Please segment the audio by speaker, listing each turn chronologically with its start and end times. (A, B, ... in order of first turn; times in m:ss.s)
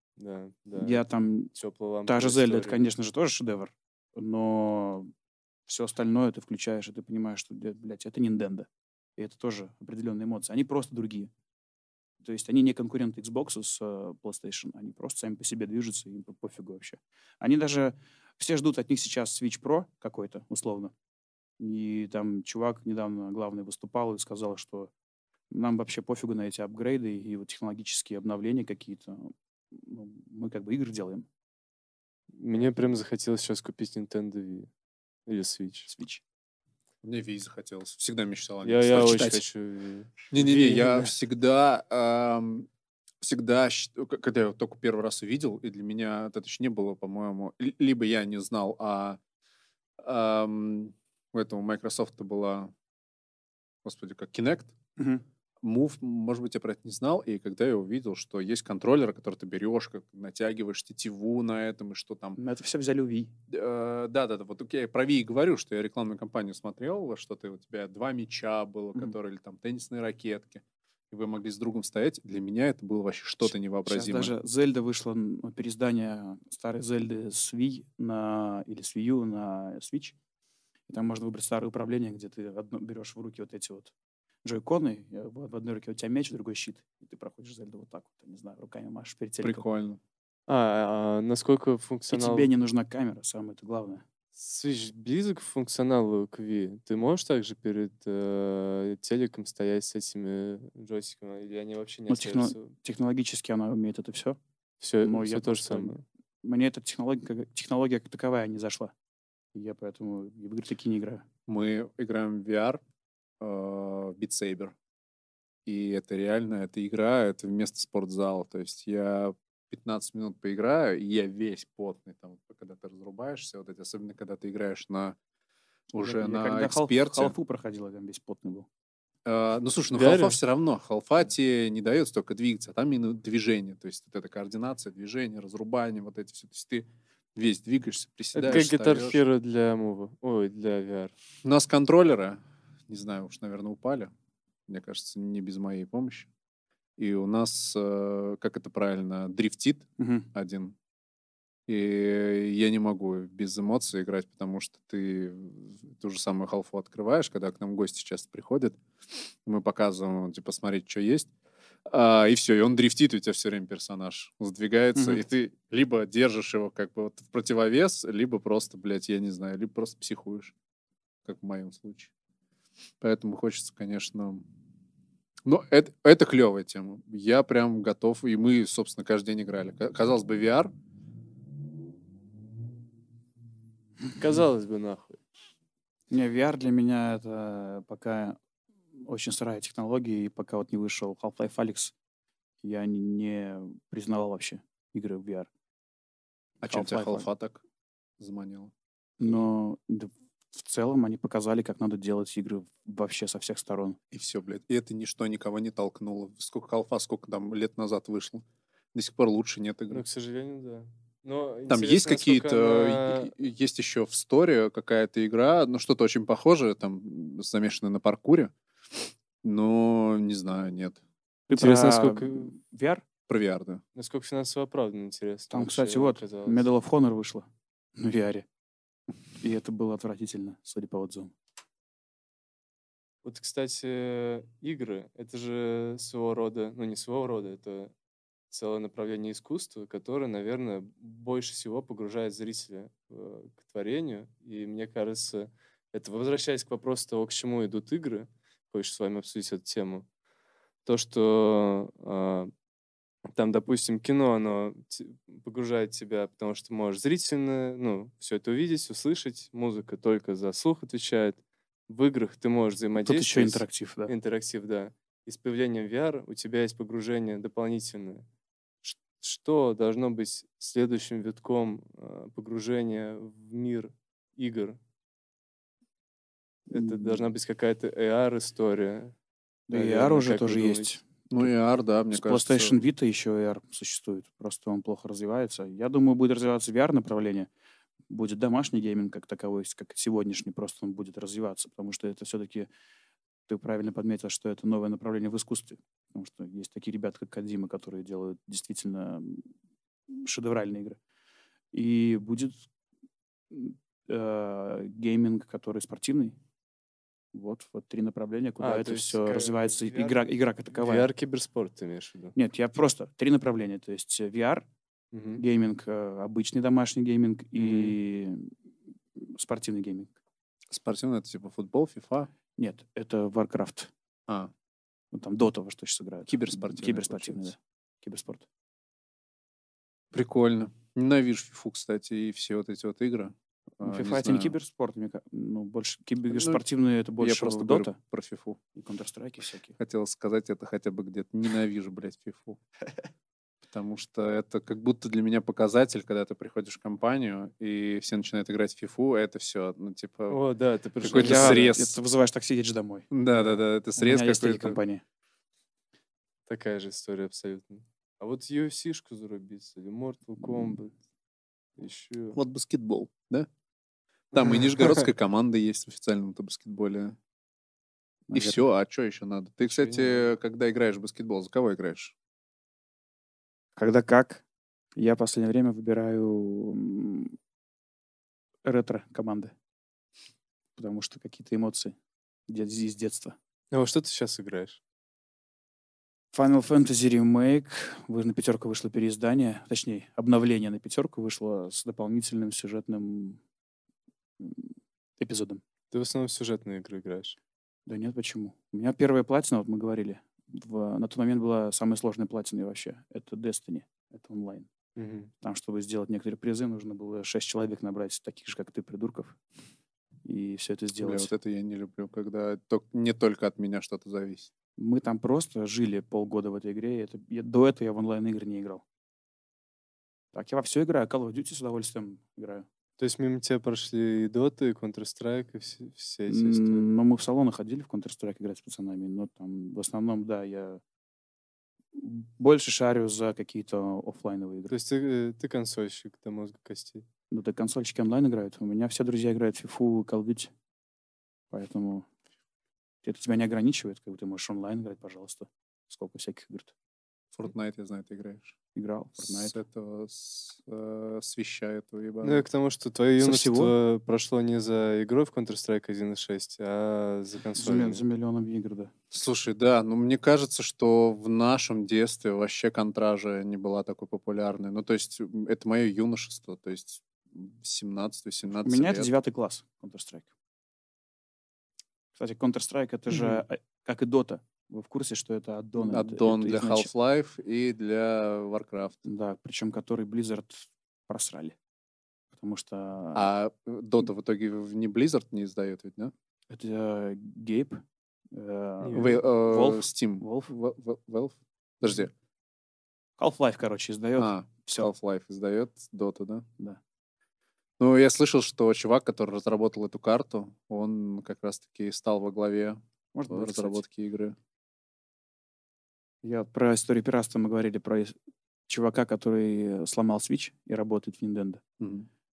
0:00.2-0:02.8 A
0:00.8-0:01.6 B
0:02.1-0:05.1 B
0:05.7-0:11.3 B
0:12.2-0:20.9 B
0:21.6-0:24.9 B
0:25.5-0:31.3 B
0:32.3-0:34.7 A
0:35.3-0:35.9 A
0:35.9-0:36.2 B
0:37.0-0:39.4 C
0:38.6-0:41.1 A
0:38.9-0:39.4 B
0:40.3-0:42.7 C
0:43.2-0:49.2 C
0:50.0-0:52.7 C
0:53.8-0:54.8 C
0:55.0-0:55.2 B
0:55.6-1:02.4 C
1:02.4-1:03.3 B
1:03.5-1:14.3 C
1:13.4-1:20.2 B
1:20.9-1:23.9 B
1:24.4-1:29.6 B
1:29.4-1:30.0 C
1:30.5-1:32.5 A
1:32.1-1:34.0 B
1:34.4-1:42.8 A
1:42.1-1:44.4 B
1:44.8-1:46.0 A
1:45.0-1:48.9 B
1:49.5-1:51.3 B
1:51.5-1:52.8 C
1:53.4-1:54.8 C
1:55.7-2:05.2 C
2:05.9-2:07.4 C
2:06.0-2:08.7 B
2:09.3-2:19.2 C
2:09.9-2:10.4 A
2:18.4-2:21.2 A
2:21.4-2:24.1 C
2:24.7-2:26.3 C
2:27.0-2:30.8 C
2:30.0-2:30.3 B
2:31.7-2:38.8 C
2:39.4-2:41.3 C
2:41.9-2:50.5 C
2:45.0-2:45.2 B
2:51.2-2:52.1 C
2:53.0-2:54.4 C
2:55.4-3:00.7 C
3:04.1-3:05.2 A
3:06.1-3:08.4 B
3:08.9-3:11.9 B
3:12.6-3:15.5 B
3:16.6-3:17.6 C
3:16.6-3:17.3 B
3:18.2-3:18.7 C
3:19.2-3:24.0 B
3:24.1-3:30.0 C
3:29.9-3:33.3 A
3:31.7-3:38.5 C
3:39.4-3:41.0 C
3:41.5-3:43.0 B
3:41.5-3:42.5 A
3:43.3-3:43.8 C
3:44.0-3:46.7 A
3:45.5-3:47.5 B
3:48.0-3:48.5 B
3:49.4-3:51.3 B
3:53.2-3:57.9 A
3:58.5-4:10.1 A
4:10.9-4:12.5 A
4:13.3-4:28.2 A
4:23.0-4:24.1 B
4:28.8-4:34.8 A
4:36.7-4:37.2 B
4:36.7-4:39.2 A
4:39.7-4:41.5 B
4:39.7-4:40.9 A
4:41.3-4:42.8 C
4:42.1-4:47.5 B
4:48.1-4:52.7 B
4:53.5-4:59.5 B
5:00.1-5:01.0 B
5:01.7-5:02.7 B
5:03.5-5:06.4 B
5:07.3-5:11.1 B
5:08.6-5:12.4 A
5:12.4-5:14.7 B
5:15.1-5:15.4 A
5:15.4-5:18.6 B
5:17.6-5:18.0 A
5:19.2-5:20.2 B
5:20.7-5:22.3 C
5:22.6-5:23.9 B
5:25.1-5:28.5 B
5:26.3-5:27.5 C
5:30.1-5:34.6 C
5:33.8-5:38.0 B
5:36.3-5:36.6 C
5:37.2-5:38.6 C
5:38.8-5:39.8 B
5:39.8-5:42.6 C
5:43.7-5:50.4 C
5:50.3-5:51.7 A
5:51.0-5:52.0 C
5:51.1-5:53.1 B
5:53.1-5:54.8 C
5:54.0-5:55.0 B
5:56.5-6:00.9 A
6:01.8-6:02.4 A
6:02.4-6:03.5 C
6:04.3-6:07.2 C
6:08.3-6:08.6 B
6:08.3-6:12.1 C
6:09.6-6:10.3 A
6:13.8-6:14.4 B
6:15.0-6:17.4 B
6:18.6-6:19.6 B
6:20.8-6:22.0 B
6:22.5-6:23.4 B
6:23.7-6:24.8 A
6:26.3-6:33.4 B
6:34.4-6:35.6 B
6:35.9-6:37.4 A
6:37.9-6:44.7 B
6:45.0-6:45.3 A
6:45.4-6:49.4 B
6:50.2-6:51.3 B
6:51.0-6:54.5 C
6:54.8-6:58.8 B
7:00.3-7:02.7 B
7:03.0-7:06.8 A
7:06.3-7:10.8 B
7:11.9-7:14.7 B
7:14.7-7:17.1 A
7:17.3-7:20.5 B
7:21.5-7:22.1 B
7:23.0-7:26.7 B
7:27.4-7:28.6 C
7:28.8-7:29.6 B
7:29.2-7:32.4 C
7:32.2-7:38.0 A
7:33.2-7:33.8 B
7:37.6-7:38.9 B
7:39.1-7:49.1 C
7:48.6-7:50.3 B
7:52.2-7:56.9 B
7:55.8-7:59.0 C
7:59.0-8:01.6 B
8:02.3-8:03.3 B
8:03.1-8:06.1 C
8:06.5-8:10.5 B
8:08.8-8:09.2 A
8:08.9-8:12.1 C
8:13.2-8:14.9 B
8:14.2-8:16.5 C
8:17.8-8:24.4 C
8:23.1-8:23.8 B
8:26.2-8:31.6 B
8:31.8-8:32.1 C